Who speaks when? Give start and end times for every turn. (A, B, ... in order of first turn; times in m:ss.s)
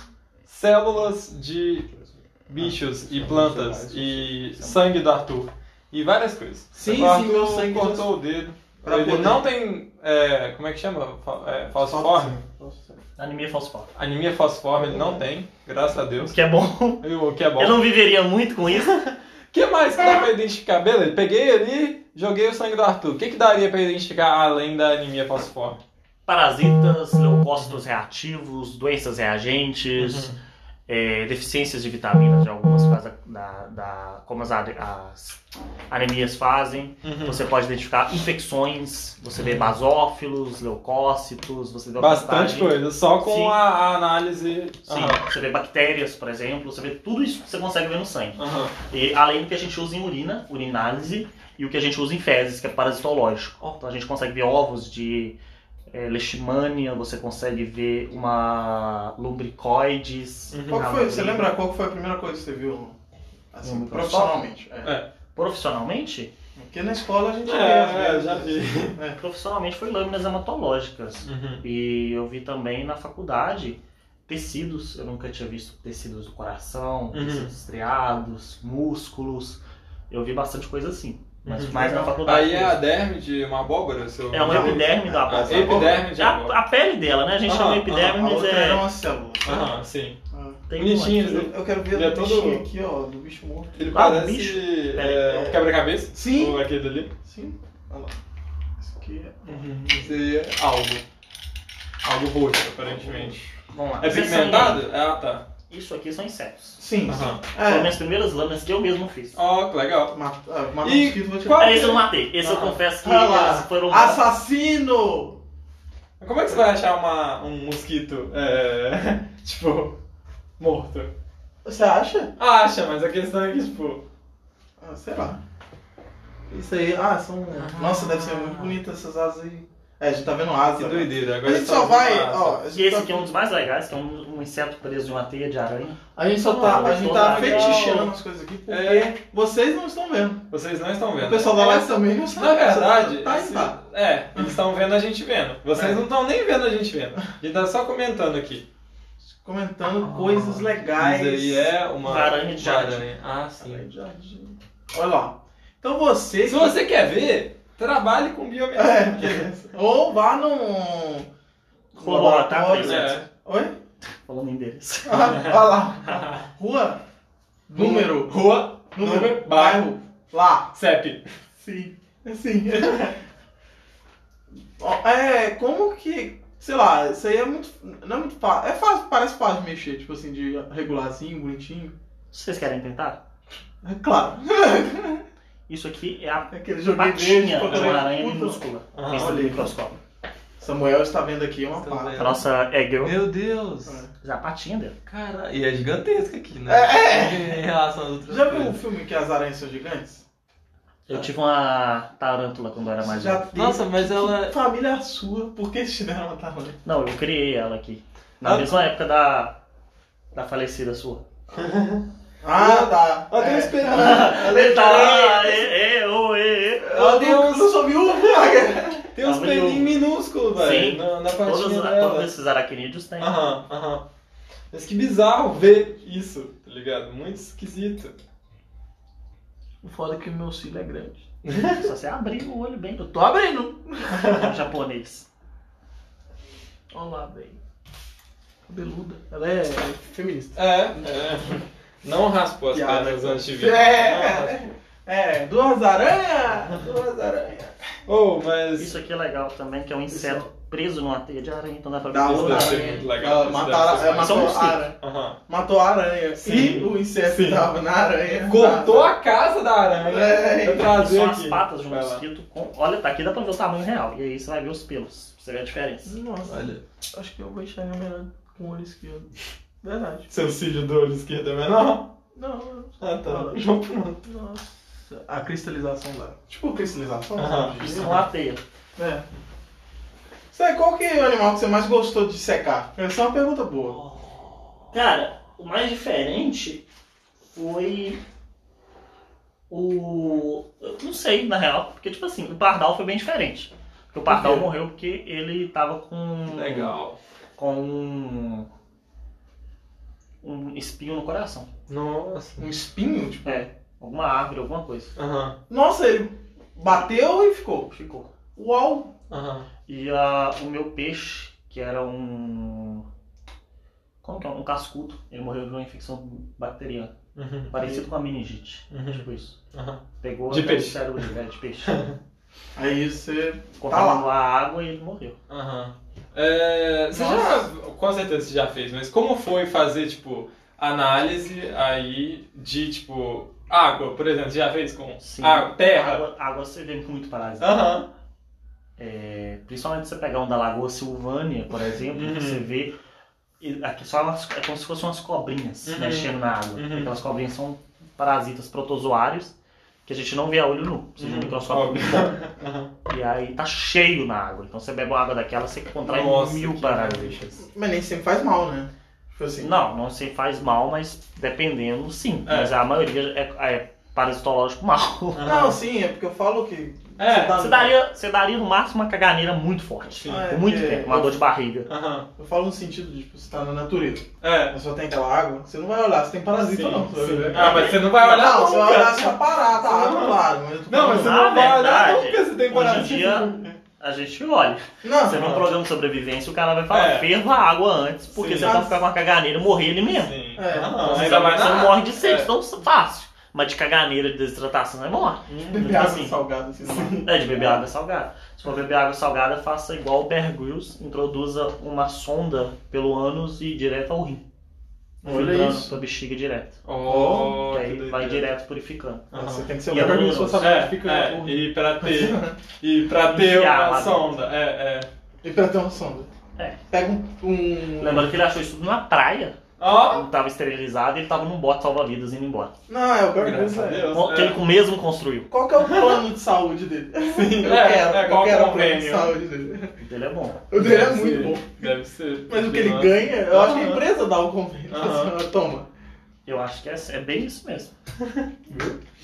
0:00.5-0:12.4 A
0:02.6-0:04.7 B
0:06.7-0:08.1 B
0:08.8-0:09.5 B
0:11.8-0:13.0 B
0:13.2-0:13.9 C
0:14.0-0:16.4 A
0:14.8-0:15.3 B
0:16.2-0:17.0 C
0:17.0-0:17.8 A
0:17.6-0:18.9 C
0:18.7-0:25.8 A
0:26.3-0:30.3 C
0:30.0-0:30.4 A
0:30.9-0:43.6 C
0:37.0-0:37.4 A
0:39.4-0:39.7 A
0:42.0-0:45.2 A
0:44.9-0:55.4 C
0:48.4-0:48.7 A
0:55.9-1:01.5 C
1:00.5-1:00.9 A
1:00.7-1:03.0 B
1:03.5-1:05.0 B
1:03.6-1:04.4 C
1:04.8-1:05.1 A
1:05.3-1:06.3 C
1:06.6-1:09.2 B
1:07.4-1:09.0 A
1:09.2-1:22.8 C
1:11.2-1:11.6 A
1:17.1-1:17.5 A
1:21.4-1:26.6 A
1:21.7-1:22.2 B
1:24.3-1:28.9 C
1:24.4-1:26.1 B
1:27.4-1:28.2 A
1:28.1-1:29.7 B
1:29.4-1:30.2 A
1:30.3-1:30.6 B
1:30.7-1:31.5 C
1:30.7-1:32.7 A
1:31.3-1:33.9 B
1:33.8-1:37.1 A
1:33.9-1:35.6 C
1:36.1-1:36.6 B
1:37.2-1:38.2 B
1:38.8-1:40.1 B
1:39.4-1:41.0 A
1:42.0-1:43.4 A
1:42.8-1:43.5 B
1:43.7-1:44.9 C
1:44.0-1:45.5 A
1:45.7-1:46.8 C
1:46.8-1:48.0 B
1:47.1-1:47.5 A
1:47.5-1:49.4 C
1:49.4-1:50.2 A
1:50.1-1:52.0 B
1:50.8-1:52.8 A
1:51.6-1:54.2 C
1:53.0-1:55.4 B
1:56.2-2:00.0 A
2:00.6-2:01.1 A
2:01.6-2:02.3 B
2:02.4-2:04.0 A
2:04.8-2:05.4 B
2:06.5-2:13.3 B
2:07.5-2:08.8 A
2:10.8-2:12.6 A
2:12.7-2:18.0 C
2:16.2-2:20.4 B
2:16.4-2:18.1 A
2:18.7-2:19.2 A
2:20.5-2:28.7 A
2:21.2-2:23.8 B
2:25.8-2:26.0 B
2:29.3-2:31.7 B
2:30.0-2:33.9 A
2:32.0-2:33.1 C
2:33.6-2:36.9 B
2:36.4-2:39.6 A
2:38.7-2:41.3 B
2:41.9-2:43.2 C
2:42.0-2:43.8 B
2:42.7-2:43.2 A
2:44.2-2:45.4 C
2:45.1-2:47.0 B
2:45.2-2:46.4 A
2:47.7-2:48.4 B
2:47.8-2:49.9 A
2:48.9-2:50.7 B
2:50.7-2:51.2 A
2:51.6-2:53.2 B
2:52.8-2:53.1 A
2:54.8-3:02.0 B
3:02.3-3:03.2 C
3:03.8-3:05.2 B
3:05.7-3:10.0 C
3:06.5-3:09.7 B
3:08.9-3:09.5 A
3:10.6-3:12.4 B
3:11.7-3:12.5 A
3:12.2-3:13.2 C
3:13.0-3:14.0 A
3:13.8-3:14.1 B
3:14.2-3:15.0 C
3:15.1-3:18.8 A
3:16.7-3:17.6 B
3:18.2-3:20.2 B
3:21.1-3:23.5 C
3:23.0-3:26.8 B
3:23.5-3:24.6 A
3:26.8-3:29.6 C
3:28.4-3:28.8 A
3:30.3-3:31.2 C
3:31.6-3:35.7 A
3:32.4-3:35.3 B
3:33.8-3:36.9 C
3:36.8-3:39.1 B
3:36.9-3:38.5 A
3:39.1-3:42.3 A
3:39.2-3:40.0 C
3:40.5-3:43.5 C
3:43.2-3:44.0 A
3:44.7-3:48.2 A
3:49.8-3:51.2 B
3:51.4-3:51.8 A
3:51.8-3:53.1 C
3:53.0-3:54.4 B
3:54.2-3:55.3 C
3:56.9-3:57.6 B
3:58.7-4:00.6 B
4:00.6-4:04.7 A
4:02.7-4:07.9 B
4:08.1-4:09.0 A
4:08.8-4:13.1 C
4:10.1-4:10.5 B
4:12.1-4:15.0 B
4:12.2-4:15.4 A
4:14.1-4:14.9 C
4:15.5-4:19.2 B
4:16.4-4:17.7 A
4:18.3-4:22.2 A
4:20.0-4:20.9 B
4:20.9-4:26.2 C
4:26.1-4:29.3 B
4:26.4-4:26.8 A
4:29.8-4:30.5 B
4:30.3-4:32.1 A
4:32.4-4:33.6 B
4:33.0-4:34.2 A
4:34.2-4:38.2 B
4:37.4-4:38.2 A
4:37.8-4:38.6 C
4:39.0-4:39.2 B
4:40.5-4:44.0 B
4:44.9-4:46.9 C
4:47.5-4:48.2 C
4:49.7-4:56.9 C
4:54.3-4:54.7 B
4:56.5-4:57.2 A
4:57.6-4:58.7 C
5:00.4-5:01.7 C
5:01.9-5:02.7 A
5:02.6-5:03.7 B
5:03.4-5:05.1 C
5:05.2-5:05.6 A
5:05.7-5:09.1 B
5:08.0-5:08.3 C
5:09.3-5:09.7 A
5:09.9-5:13.0 C
5:14.2-5:17.1 C
5:17.4-5:17.8 A
5:17.7-5:19.6 C
5:17.8-5:18.1 B
5:18.9-5:21.3 A
5:20.2-5:22.0 C
5:21.9-5:22.2 A
5:22.8-5:24.3 B
5:23.8-5:25.4 C
5:25.5-5:36.2 A
5:27.1-5:27.6 B
5:35.2-5:37.8 C
5:37.6-5:38.1 A
5:39.0-5:43.0 C
5:42.1-5:42.7 A
5:43.6-5:52.4 C
5:45.9-5:47.1 A
5:51.2-5:52.9 A
5:53.1-5:57.6 C
5:56.0-5:57.4 A
5:57.6-5:59.7 B
5:59.6-6:05.5 C
6:02.4-6:02.7 A
6:05.4-6:05.8 A
6:05.4-6:08.0 B
6:07.2-6:07.6 A
6:07.5-6:11.9 C
6:10.2-6:10.5 A
6:10.2-6:11.4 B
6:11.9-6:12.3 A
6:12.4-6:21.4 B
6:14.4-6:14.8 A
6:16.5-6:23.8 A
6:17.5-6:18.7 C
6:21.0-6:30.4 C
6:25.0-6:25.5 B
6:25.3-6:25.7 A
6:26.9-6:27.3 A
6:28.3-6:28.8 A
6:28.6-6:29.0 B
6:30.1-6:32.5 A
6:30.5-6:31.7 B
6:31.0-6:36.4 C
6:35.5-6:36.2 A
6:35.7-6:37.8 B
6:37.0-6:44.4 C
6:45.2-6:45.7 A
6:45.2-6:46.0 B
6:45.2-6:46.8 C
6:46.8-6:48.5 A
6:47.0-6:47.6 B
6:47.4-6:49.2 C
6:49.3-6:49.7 A
6:49.3-6:52.6 B
6:49.8-6:50.8 C
6:50.6-6:55.1 A
6:53.3-6:54.4 C
6:55.4-6:56.3 B
6:56.9-6:58.3 B
6:58.0-7:02.7 C
6:59.8-7:00.3 A
7:02.9-7:04.2 B
7:03.4-7:04.6 A
7:04.1-7:05.5 C
7:05.5-7:10.0 B
7:05.8-7:06.2 A
7:07.2-7:09.4 A
7:10.0-7:10.7 C
7:10.7-7:11.9 B
7:10.7-7:14.0 A
7:12.5-7:15.9 B
7:14.9-7:15.3 A
7:16.4-7:17.9 C
7:18.3-7:19.0 A